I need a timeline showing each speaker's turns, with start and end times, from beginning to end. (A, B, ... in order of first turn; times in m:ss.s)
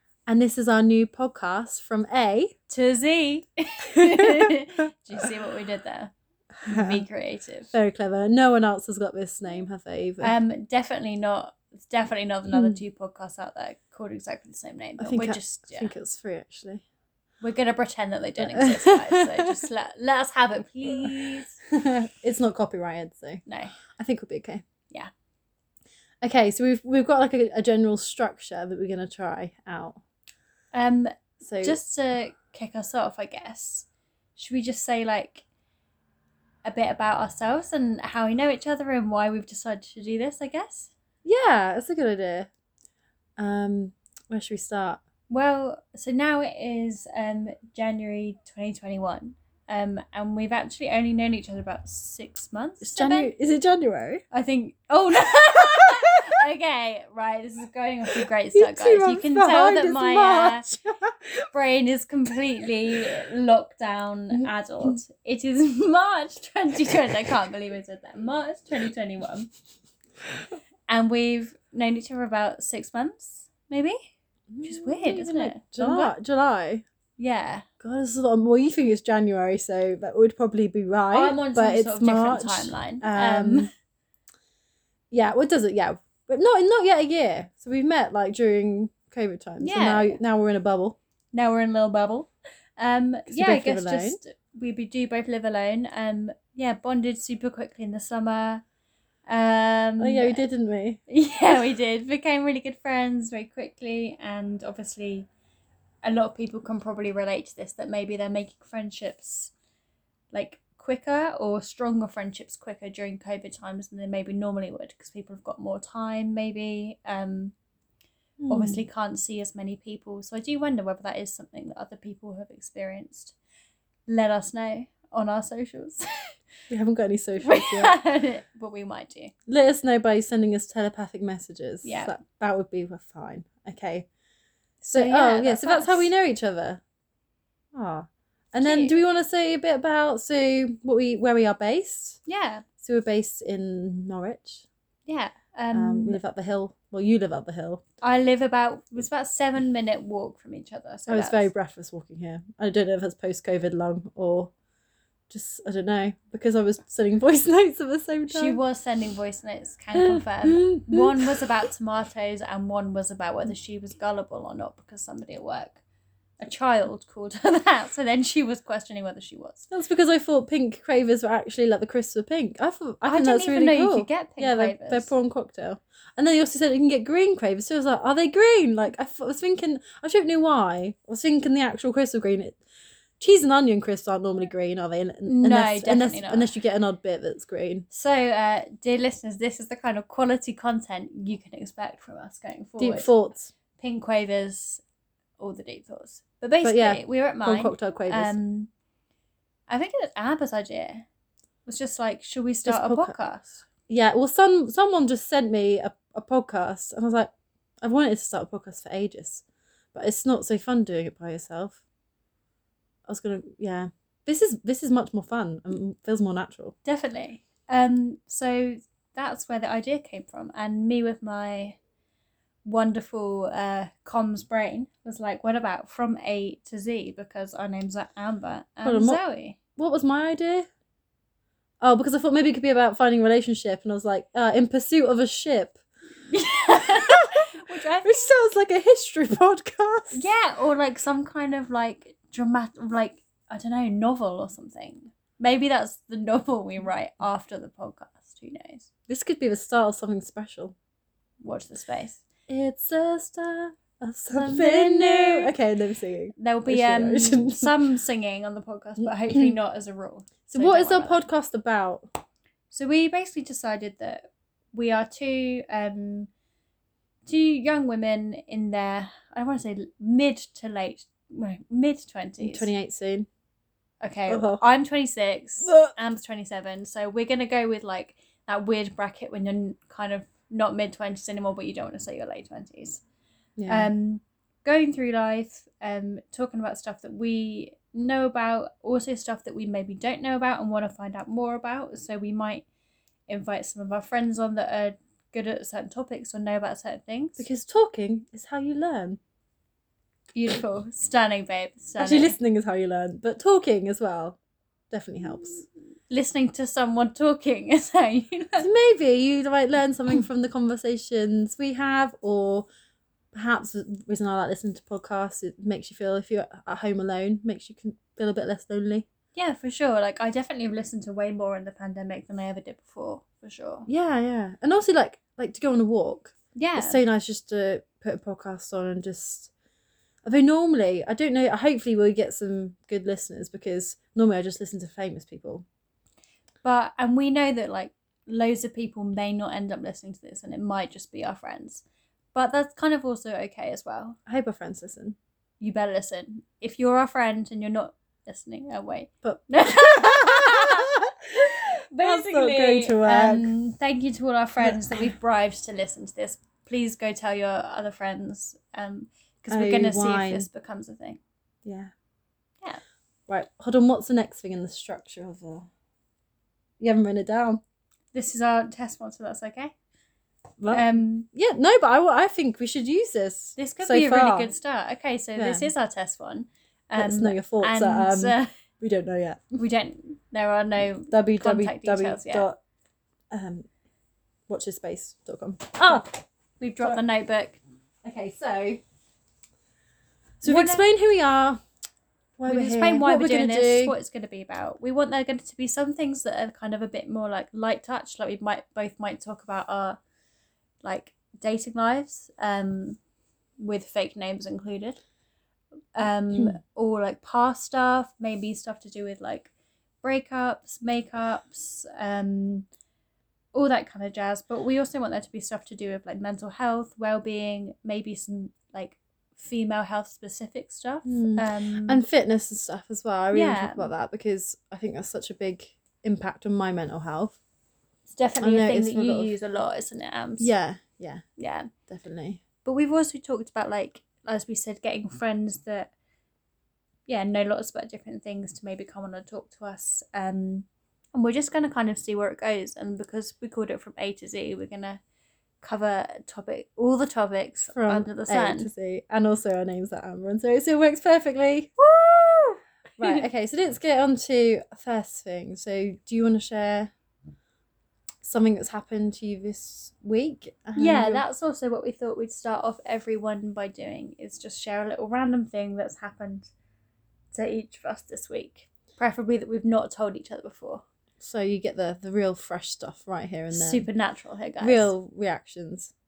0:00.3-0:02.5 A
0:02.7-0:06.1 B
0:03.9-0:04.5 A
0:06.6-0:07.0 A
0:06.6-0:07.7 B
0:07.7-0:10.3 A
0:10.2-0:15.9 B
0:12.5-0:12.8 A
0:15.0-0:16.8 A
0:17.4-0:21.6 B
0:18.4-0:19.6 A
0:21.6-0:23.4 A
0:23.5-0:23.8 B
0:23.9-0:24.6 A
0:26.2-0:30.0 A
0:30.7-0:35.4 B
0:31.4-0:31.8 A
0:36.6-0:40.9 B
0:41.2-0:42.5 A
0:43.4-0:45.0 A
0:45.3-0:53.3 B
0:52.8-0:54.2 A
0:54.3-1:00.6 B
0:58.5-1:01.4 A
1:01.5-1:09.5 B
1:10.9-1:14.0 B
1:14.5-1:16.8 A
1:14.6-1:16.1 B
1:17.2-1:17.6 B
1:17.8-1:23.7 A
1:21.1-1:23.7 B
1:25.1-1:31.0 A
1:29.6-1:30.2 B
1:31.3-1:38.6 B
1:33.3-1:34.2 A
1:39.3-1:40.4 B
1:40.0-1:41.0 A
1:41.1-1:45.3 B
1:46.0-1:49.5 B
1:50.3-1:57.5 B
1:58.4-1:58.8 A
1:58.5-2:03.3 B
2:04.1-2:06.0 B
2:06.7-2:07.9 A
2:07.4-2:09.3 B
2:09.5-2:14.1 A
2:11.8-2:12.1 B
2:14.8-2:16.1 B
2:14.9-2:16.8 A
2:17.7-2:22.2 A
2:18.6-2:19.0 B
2:22.3-2:22.6 B
2:22.8-2:24.6 A
2:25.1-2:26.2 B
2:25.7-2:27.8 A
2:28.0-2:31.5 B
2:31.1-2:34.5 A
2:35.3-2:38.6 A
2:38.3-2:45.8 B
2:39.9-2:41.4 A
2:46.4-2:49.7 B
2:49.7-3:02.6 A
2:53.0-2:55.1 B
3:03.2-3:07.9 A
3:05.2-3:06.5 B
3:07.9-3:13.1 B
3:12.8-3:13.5 A
3:13.8-3:14.8 B
3:15.4-3:18.7 B
3:16.6-3:18.4 A
3:19.7-3:21.0 B
3:21.6-3:23.6 B
3:22.6-3:23.2 A
3:23.9-3:31.8 A
3:33.1-3:36.7 A
3:36.8-3:41.8 B
3:42.6-3:49.6 B
3:48.8-3:49.2 A
3:49.8-3:50.7 A
3:51.8-3:55.8 A
3:56.3-3:58.2 B
3:56.7-3:57.5 A
3:58.0-4:00.2 A
4:00.1-4:08.9 B
4:09.1-4:10.7 A
4:11.4-4:12.2 B
4:12.5-4:17.7 A
4:14.3-4:15.6 B
4:16.4-4:21.2 B
4:19.0-4:19.5 A
4:20.5-4:22.1 A
4:22.7-4:26.3 B
4:27.2-4:32.7 B
4:32.4-4:33.3 A
4:34.0-4:43.0 B
4:34.3-4:34.6 A
4:35.6-4:35.9 A
4:43.6-4:43.9 A
4:43.7-4:52.6 B
4:53.3-4:57.4 B
4:57.4-4:59.2 A
5:00.3-5:02.4 B
5:02.0-5:04.4 A
5:04.9-5:05.6 A
5:06.1-5:08.7 B
5:08.6-5:12.7 A
5:13.3-5:19.1 A
5:19.3-5:23.9 B
5:23.9-5:29.5 A
5:26.5-5:27.0 B
5:30.2-5:35.6 A
5:36.6-5:41.8 B
5:42.3-5:44.2 B
5:44.3-5:45.2 A
5:45.6-5:50.9 B
5:49.2-5:53.5 A
5:51.9-6:01.2 B
5:54.6-5:55.1 A
5:59.5-6:00.5 A
6:01.6-6:01.9 A
6:03.3-6:05.7 A
6:06.8-6:07.6 A
6:08.1-6:09.7 B
6:10.6-6:14.5 A
6:10.7-6:11.3 B
6:13.6-6:18.5 B
6:15.4-6:15.7 A
6:17.0-6:19.6 A
6:19.6-6:22.5 B
6:21.1-6:22.6 A
6:23.3-6:23.7 A
6:24.5-6:26.1 A
6:25.8-6:27.6 B
6:28.0-6:28.8 A
6:30.4-6:31.6 A
6:30.4-6:30.8 B
6:32.4-6:34.0 A
6:32.5-6:40.0 B
6:40.8-6:43.0 B
6:43.6-6:45.0 B
6:45.9-6:49.5 B
6:50.0-6:52.6 B
6:53.5-7:02.0 B
7:01.0-7:07.4 A
7:03.3-7:03.9 B
7:08.1-7:10.5 B
7:08.4-7:09.3 A
7:10.4-7:11.2 A
7:11.4-7:11.7 B
7:11.9-7:12.4 A
7:12.6-7:15.9 B
7:17.1-7:25.0 B
7:25.6-7:28.7 B
7:27.7-7:31.7 A
7:31.8-7:33.3 B
7:33.0-7:36.9 A
7:38.2-7:41.2 A
7:40.7-7:46.5 B
7:47.3-7:50.8 B
7:51.2-7:53.9 A
7:53.5-7:54.9 B
7:54.6-7:55.9 A